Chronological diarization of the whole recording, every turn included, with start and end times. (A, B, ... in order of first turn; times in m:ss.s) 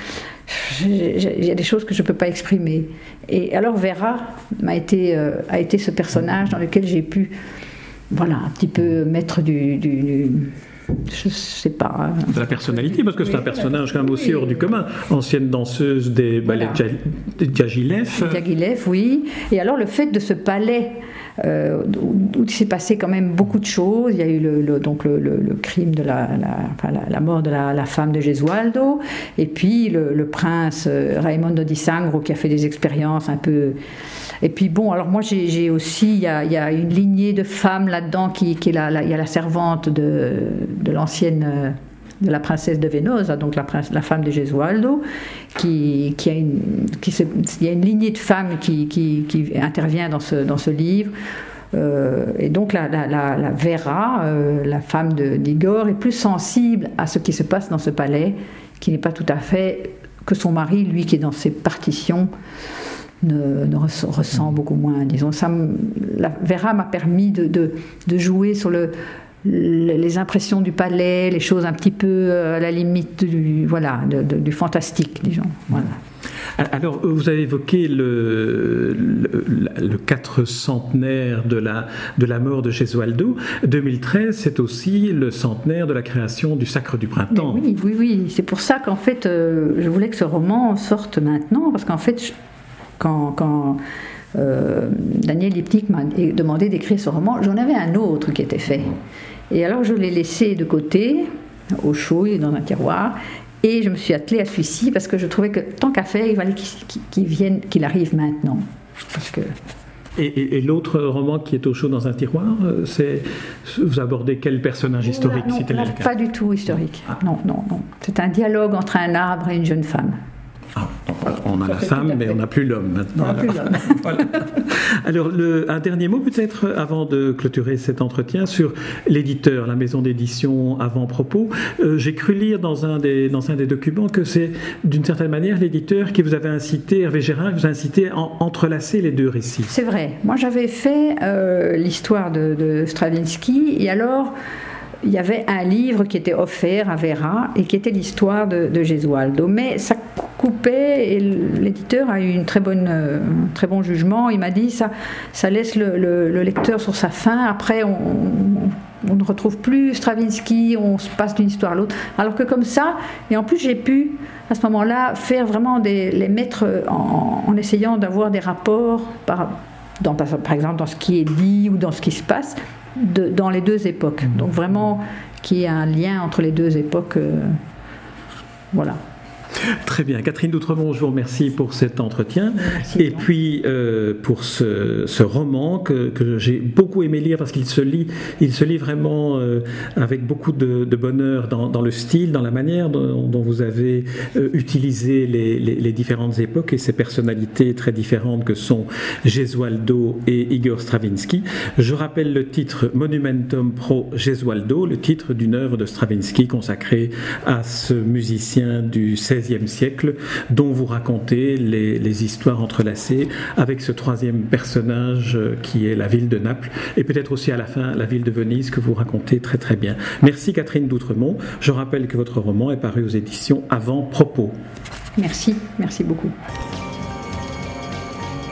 0:00.5-0:07.3 A
0:08.1-0:12.4 A
0:12.3-0:18.4 B
0:16.4-0:16.8 A
0:18.1-0:33.8 A
0:34.4-0:45.0 A
0:45.5-0:51.1 A
0:51.7-1:02.3 A
1:03.2-1:08.9 A
1:09.4-1:16.0 A
1:16.6-1:27.6 B
1:27.3-1:32.3 A
1:33.0-1:33.8 A
1:34.3-1:38.9 A
1:39.5-1:41.3 A
1:41.8-1:49.5 A
1:50.2-1:56.1 B
1:55.0-2:00.2 A
2:00.7-2:19.7 B
2:01.7-2:02.4 A
2:03.2-2:04.0 A
2:19.7-2:24.3 A
2:25.0-2:57.6 A
2:58.7-2:59.0 A
2:59.8-3:44.6 B
3:02.5-3:03.3 A
3:45.2-3:46.3 A